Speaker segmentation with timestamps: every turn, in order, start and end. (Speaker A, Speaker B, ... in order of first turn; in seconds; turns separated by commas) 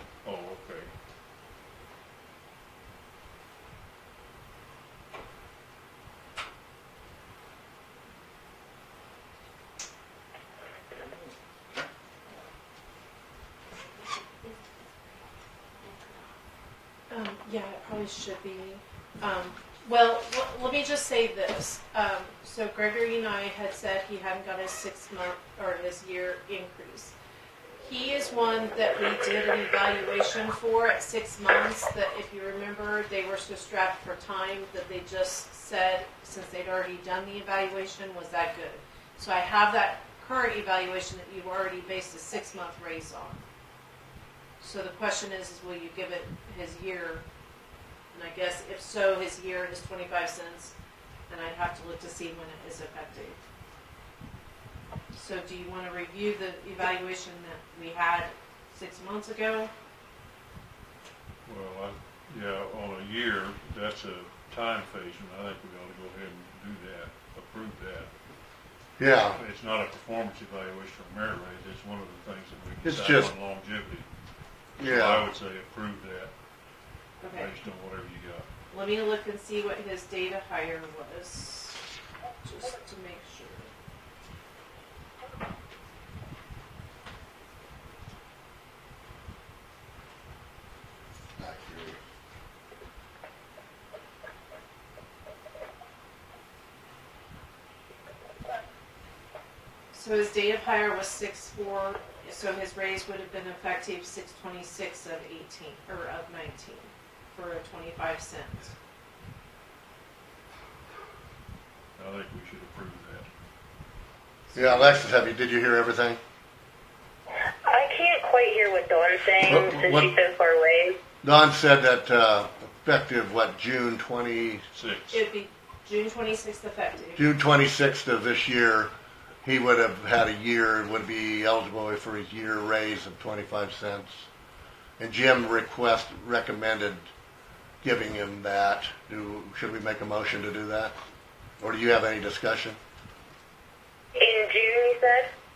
Speaker A: 0.2-0.9, Speaker B: 17.1-27.1, Speaker B: 27.8-43.4, Speaker B: 44.6-47.2, Speaker B: 48.1-50.7, Speaker B: 51.3-53.4, Speaker B: 55.1-59.7, Speaker A: 61.5-68.1, Speaker C: 69.0-69.4, Speaker A: 69.3-74.1, Speaker C: 72.8-73.3, Speaker C: 74.8-75.3, Speaker A: 74.8-76.3, Speaker B: 77.2-77.5, Speaker A: 77.3-78.5, Speaker B: 78.7-81.8, Speaker B: 82.4-83.7, Speaker C: 91.4-92.0, Speaker B: 99.9-108.7, Speaker A: 112.0-113.3, Speaker C: 114.5-116.2, Speaker D: 117.7-121.0, Speaker C: 119.5-120.1, Speaker C: 121.2-124.6, Speaker A: 124.7-125.2, Speaker B: 125.1-127.2, Speaker C: 127.2-128.9, Speaker C: 129.4-134.3, Speaker C: 135.0-137.1, Speaker C: 137.8-140.9, Speaker C: 141.6-142.8, Speaker D: 144.2-145.3